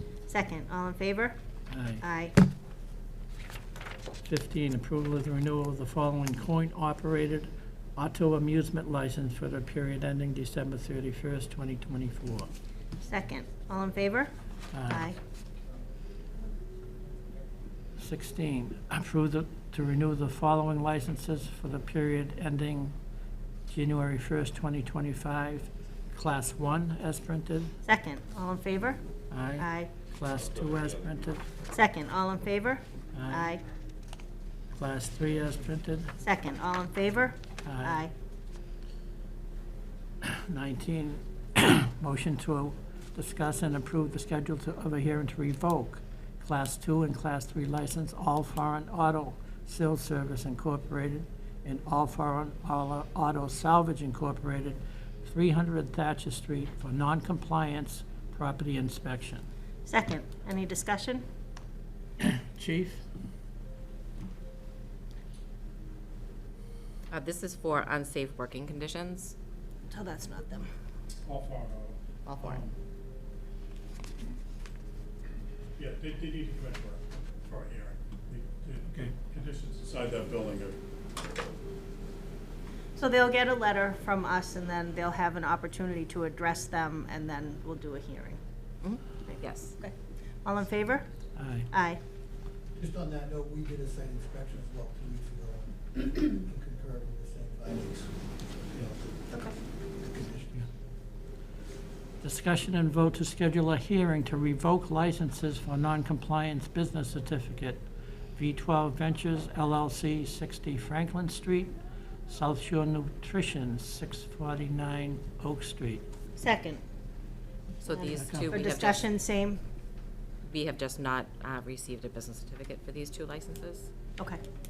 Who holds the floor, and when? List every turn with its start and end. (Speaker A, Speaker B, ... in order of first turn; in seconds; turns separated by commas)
Speaker A: 0.3-1.4, Speaker B: 1.7-2.0, Speaker A: 2.0-2.4, Speaker B: 4.2-12.5, Speaker A: 13.0-14.3, Speaker B: 14.7-15.1, Speaker A: 14.9-15.2, Speaker B: 18.0-22.9, Speaker B: 23.7-27.7, Speaker A: 27.8-29.0, Speaker B: 29.3-31.5, Speaker A: 29.6-29.9, Speaker A: 31.7-33.6, Speaker B: 33.1-33.5, Speaker B: 34.7-36.1, Speaker A: 36.2-38.1, Speaker B: 37.6-38.0, Speaker B: 40.2-59.5, Speaker A: 59.9-61.2, Speaker B: 62.2-63.0, Speaker C: 67.1-69.3, Speaker A: 69.9-70.7, Speaker D: 71.2-72.8, Speaker C: 72.2-72.6, Speaker D: 75.8-80.8, Speaker A: 83.0-88.4, Speaker C: 88.8-89.8, Speaker A: 89.2-89.9, Speaker A: 90.4-91.1, Speaker B: 91.3-91.7, Speaker A: 91.7-92.0, Speaker E: 92.8-95.6, Speaker D: 93.1-95.5, Speaker D: 96.3-98.0, Speaker E: 96.6-97.9, Speaker B: 102.2-107.8, Speaker B: 108.3-111.7, Speaker B: 112.3-116.0, Speaker A: 116.4-116.8, Speaker C: 117.8-119.0, Speaker B: 118.0-118.6, Speaker A: 118.5-119.6, Speaker C: 120.4-123.9